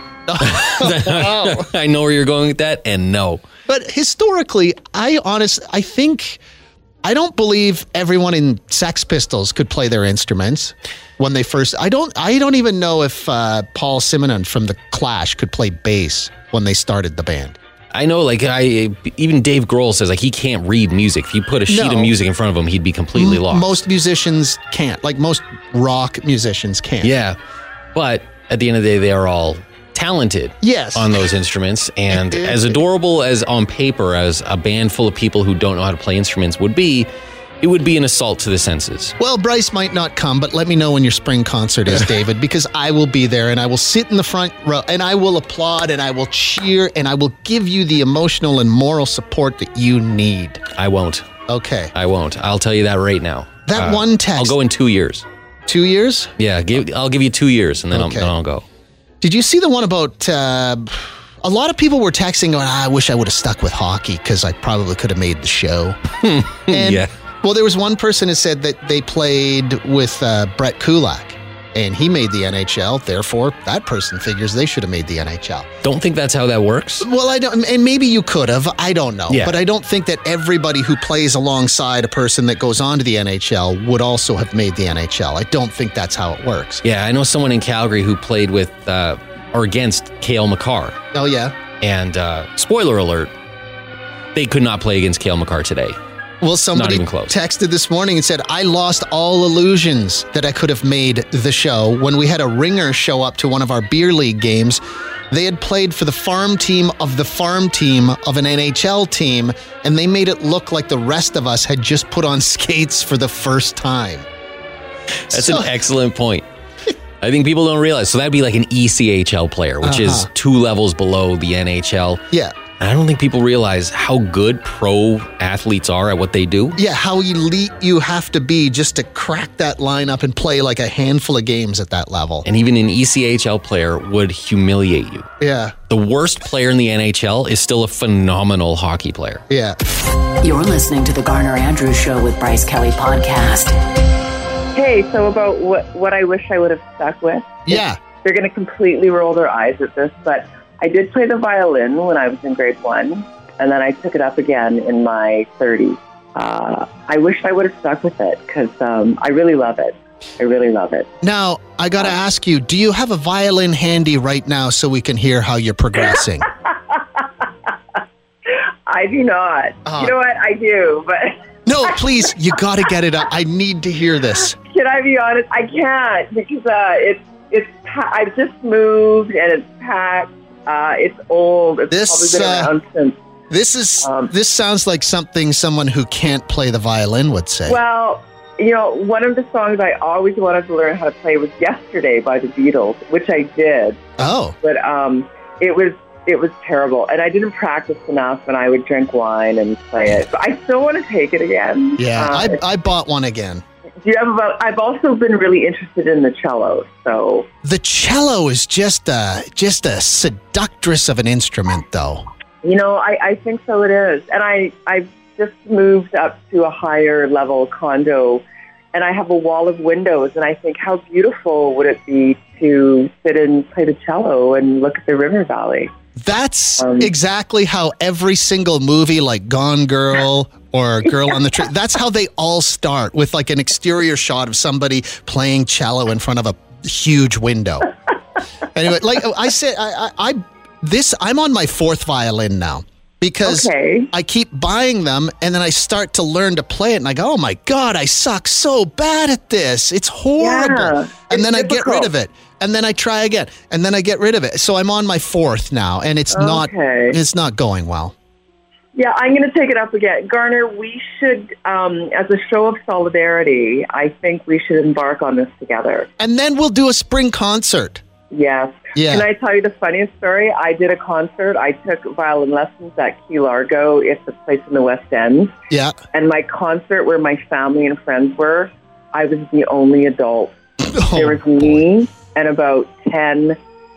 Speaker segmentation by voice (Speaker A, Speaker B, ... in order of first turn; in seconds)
Speaker A: 0.3-1.7, 3.7-6.4, 7.0-17.6, 21.7-22.1, 23.1-27.1, 30.6-31.2, 32.1-32.8, 39.2-50.6, 51.5-51.9, 53.6-54.5, 55.7-56.3, 57.9-58.3, 59.2-66.0, 66.7-75.7, 77.0-86.8, 91.1-91.5, 96.4-114.2, 115.3-115.7, 119.8-120.3, 126.8-132.4, 135.4-135.8, 139.5-139.8, 147.7-148.0, 161.2-166.5, 169.8-170.1, 171.7-174.6, 181.9-182.7, 183.5-187.8, 194.2-194.6, 202.0-203.6, 207.6-212.2, 226.2-237.9, 238.7-258.1, 266.2-268.0, 268.9-269.2, 275.7-275.9, 280.9-281.8
Speaker B: 0.4-3.4, 17.9-23.7, 27.0-27.4, 27.9-37.1, 37.6-39.1, 50.7-51.3, 51.9-55.2, 56.4-58.6, 66.2-67.1, 75.8-77.0, 79.3-79.6, 86.8-91.0, 91.8-93.3, 94.3-96.0, 96.7-97.3, 115.3-116.5, 117.2-122.2, 122.8-126.8, 132.4-135.3, 135.9-139.4
Speaker C: 140.4-143.8
Speaker D: 144.7-161.1, 168.8-172.0, 174.7-183.2, 184.0-184.3, 187.7-194.0, 194.6-202.6, 204.0-207.5, 212.6-225.9, 226.8-227.1, 243.4-244.1, 250.4-252.1, 256.3-257.2, 258.9-266.1, 268.3-275.5, 276.1-280.6, 281.1-283.6